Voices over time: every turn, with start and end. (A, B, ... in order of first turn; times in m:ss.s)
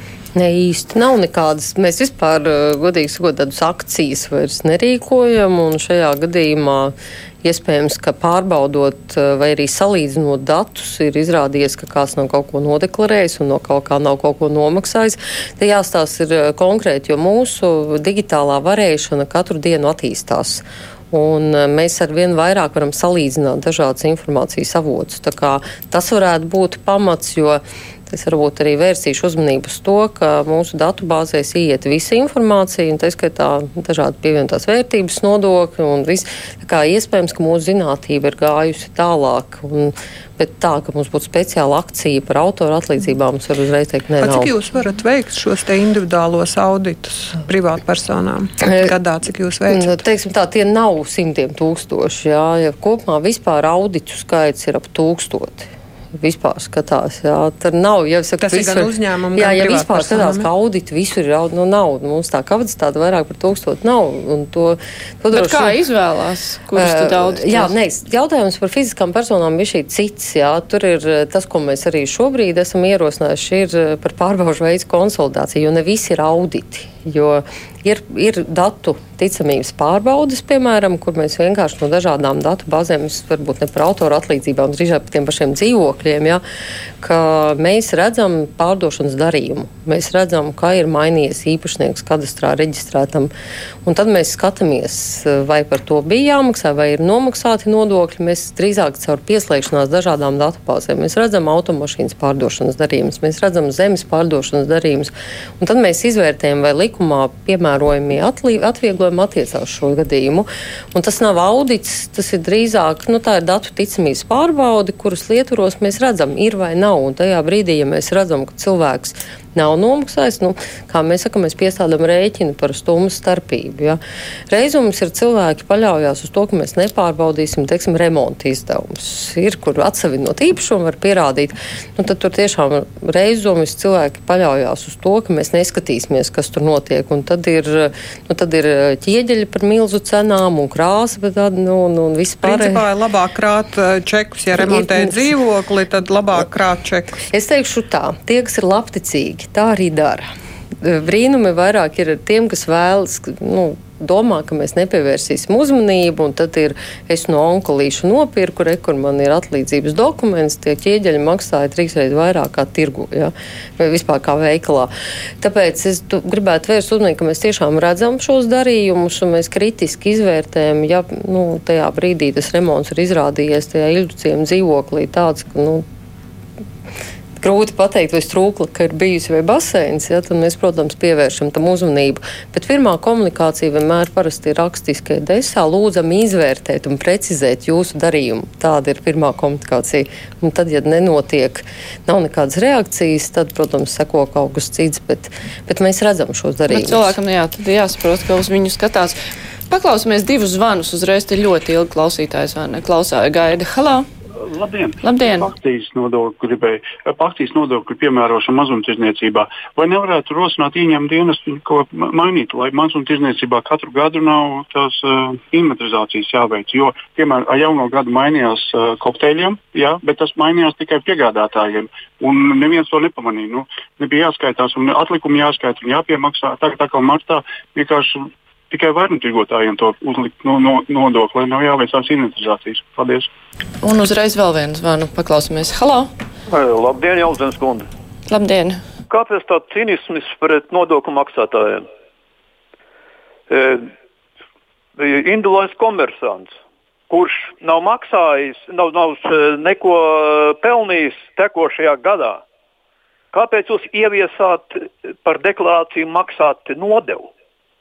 0:00.4-0:44.5 A
0:44.2-0:50.0 B
0:49.7-1:05.8 A
0:58.4-1:00.5 B
1:05.3-1:07.7 C
1:06.8-1:26.4 A
1:27.0-1:33.3 A
1:33.8-2:22.9 A
2:22.4-2:27.2 B
2:27.3-2:30.3 A
2:30.8-2:55.8 A
2:57.4-3:17.2 A
3:16.7-3:19.2 C
3:19.7-3:24.1 C
3:24.5-3:53.3 D
3:25.0-3:25.5 C
3:53.8-3:56.1 C
3:56.5-3:57.9 E
3:58.3-3:58.8 C
3:59.1-4:01.9 E
4:03.5-4:03.9 E
4:05.0-4:06.6 E
4:07.1-4:12.4 E
4:13.3-4:17.3 E